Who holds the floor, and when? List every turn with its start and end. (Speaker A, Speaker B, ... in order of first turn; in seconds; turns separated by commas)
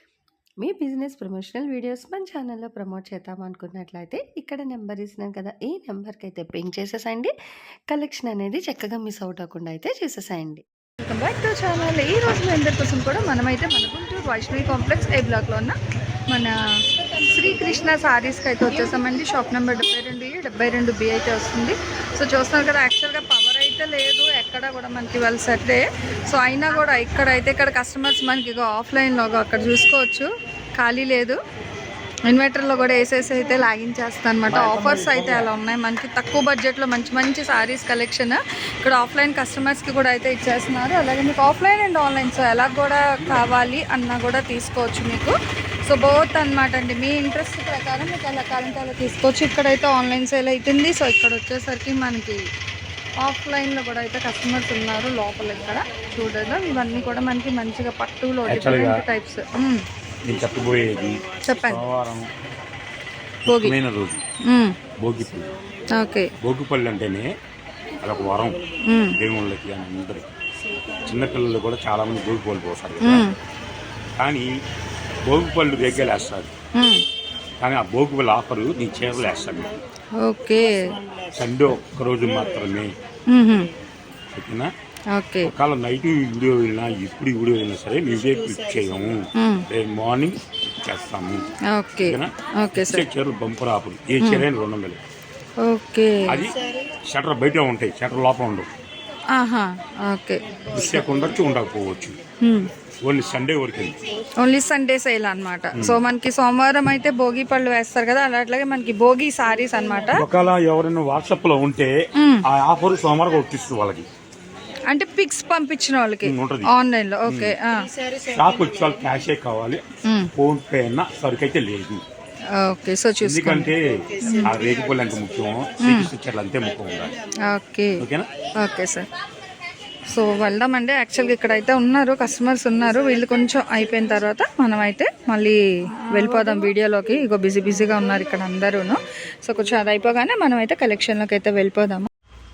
Speaker A: 0.6-7.3, Speaker A: 7.9-10.6, Speaker B: 11.0-15.7, Speaker B: 17.2-31.4, Speaker B: 32.3-52.4, Speaker B: 53.2-59.8, Speaker C: 58.5-59.0, Speaker C: 60.2-62.3, Speaker B: 61.4-61.8, Speaker C: 63.4-64.2, Speaker B: 63.5-63.7, Speaker B: 64.5-64.7, Speaker C: 65.0-65.5, Speaker B: 65.9-66.3, Speaker C: 66.4-67.3, Speaker C: 68.0-68.6, Speaker B: 68.9-69.2, Speaker C: 69.2-70.3, Speaker C: 71.0-73.3, Speaker B: 73.0-73.3, Speaker C: 74.2-74.5, Speaker C: 75.2-76.5, Speaker B: 76.7-77.0, Speaker C: 77.6-79.7, Speaker B: 80.2-81.0, Speaker C: 81.3-82.9, Speaker B: 83.3-83.7, Speaker C: 84.3-84.7, Speaker B: 85.1-85.5, Speaker C: 85.4-91.5, Speaker B: 89.3-89.6, Speaker B: 91.7-93.1, Speaker C: 92.0-95.0, Speaker B: 94.2-94.5, Speaker B: 95.6-96.4, Speaker C: 96.2-98.7, Speaker B: 99.3-101.1, Speaker C: 100.7-102.2, Speaker B: 102.4-102.7, Speaker C: 103.0-104.0, Speaker B: 104.4-110.2, Speaker C: 105.7-106.0, Speaker C: 110.1-111.9, Speaker B: 112.2-112.4, Speaker C: 112.4-114.1, Speaker B: 114.9-117.9, Speaker C: 116.2-116.7, Speaker C: 117.3-117.5, Speaker C: 118.2-119.8, Speaker B: 120.0-120.3, Speaker C: 120.3-122.0, Speaker B: 122.5-123.7, Speaker C: 123.2-127.1, Speaker B: 124.2-124.5, Speaker B: 125.8-126.1, Speaker B: 127.5-128.0, Speaker C: 128.0-128.3, Speaker B: 128.6-129.1, Speaker B: 130.1-142.1